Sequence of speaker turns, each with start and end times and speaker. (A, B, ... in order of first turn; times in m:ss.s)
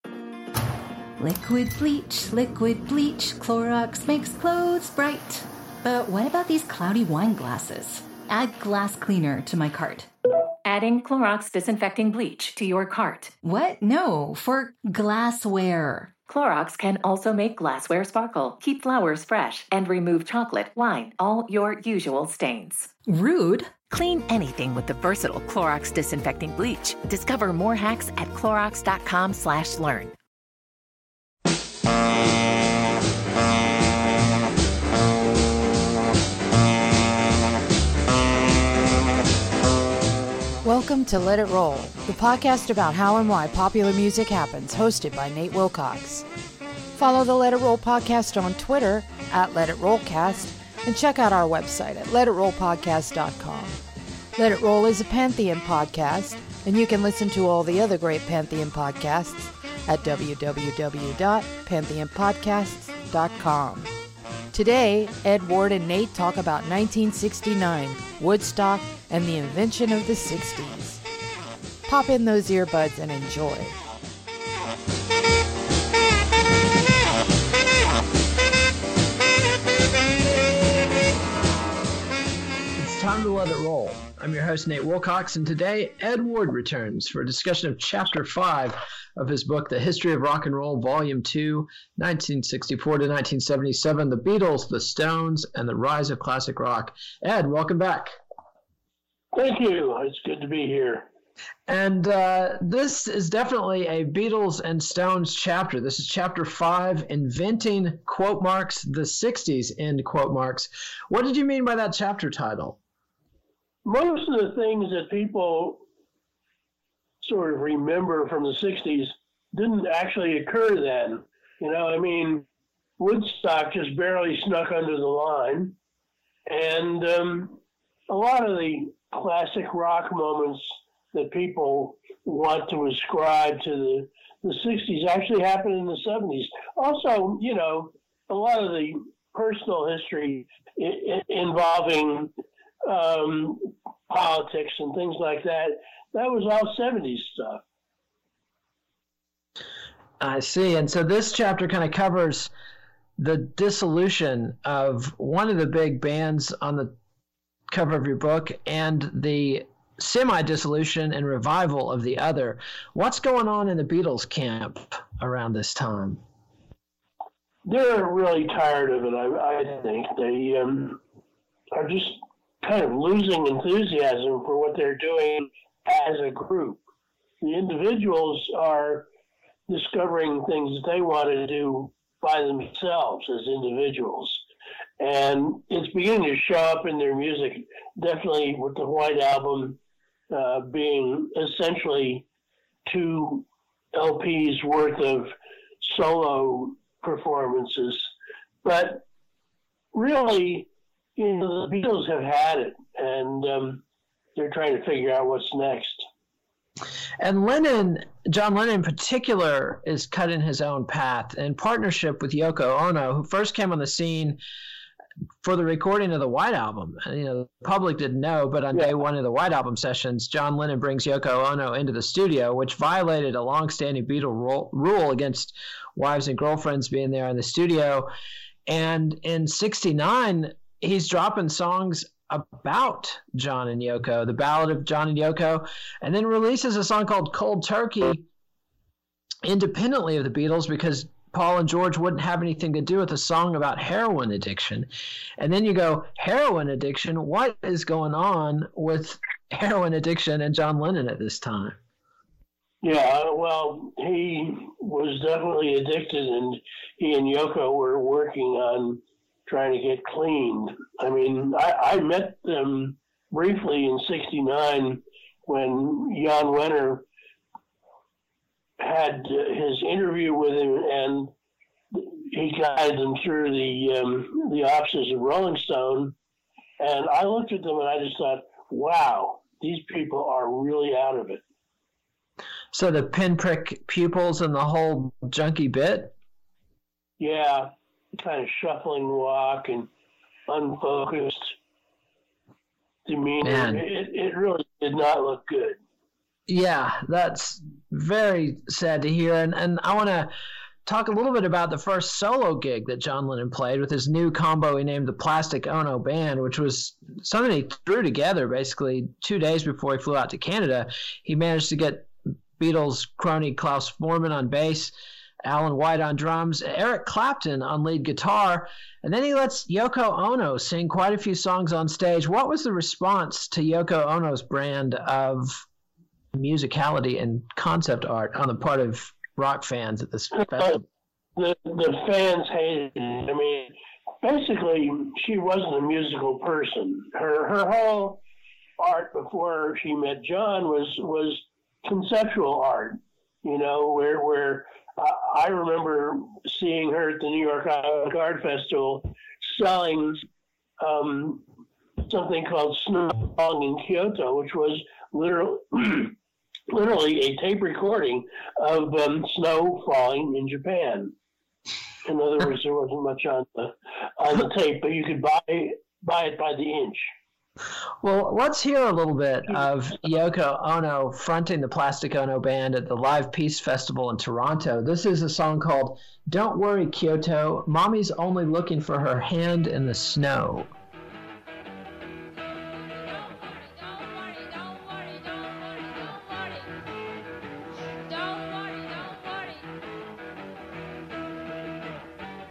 0:01.2-0:10.1 A
0:10.6-0:13.3 B
0:13.4-0:16.1 A
0:16.3-0:22.9 B
0:23.1-0:23.7 A
0:23.9-0:30.1 B
0:40.6-0:46.2 C
0:46.9-0:53.8 C
0:54.4-1:03.9 C
1:04.5-1:11.0 C
1:11.9-1:13.8 C
1:22.8-1:38.1 D
1:39.3-1:41.0 E
1:41.7-1:52.8 D
1:53.8-1:55.8 E
1:57.2-2:02.4 E
2:03.0-2:05.7 E
2:06.5-2:22.3 E
2:22.8-2:27.6 E
2:30.2-2:32.5 D
2:33.2-2:36.9 D
2:37.7-2:46.2 D
2:47.6-2:51.0 E
2:51.7-2:56.8 E
2:57.4-2:59.1 E
2:59.7-3:04.4 E
3:05.0-3:09.8 E
3:10.3-3:12.2 E
3:12.8-3:18.1 E
3:18.6-3:19.0 E
3:19.9-3:23.8 E
3:24.3-3:26.1 E
3:27.2-3:34.4 D
3:35.4-3:48.1 D
3:48.7-3:58.2 D
3:59.4-4:11.8 D
4:12.8-4:27.0 E
4:28.8-4:31.3 E
4:31.9-4:36.1 E
4:36.8-4:41.4 E
4:42.7-4:46.1 D
4:47.2-4:49.9 E
4:50.5-4:51.5 E
4:53.0-4:55.8 E
4:53.4-4:53.8 D
4:56.5-5:00.3 D
5:00.8-5:14.9 D
5:15.4-5:25.6 D
5:26.3-5:30.8 D
5:30.4-5:30.8 E
5:31.4-5:38.2 E
5:38.8-5:50.2 E
5:50.8-5:51.4 E
5:52.0-5:56.1 E
5:56.7-6:01.1 E
6:02.0-6:07.0 E
6:08.0-6:20.7 D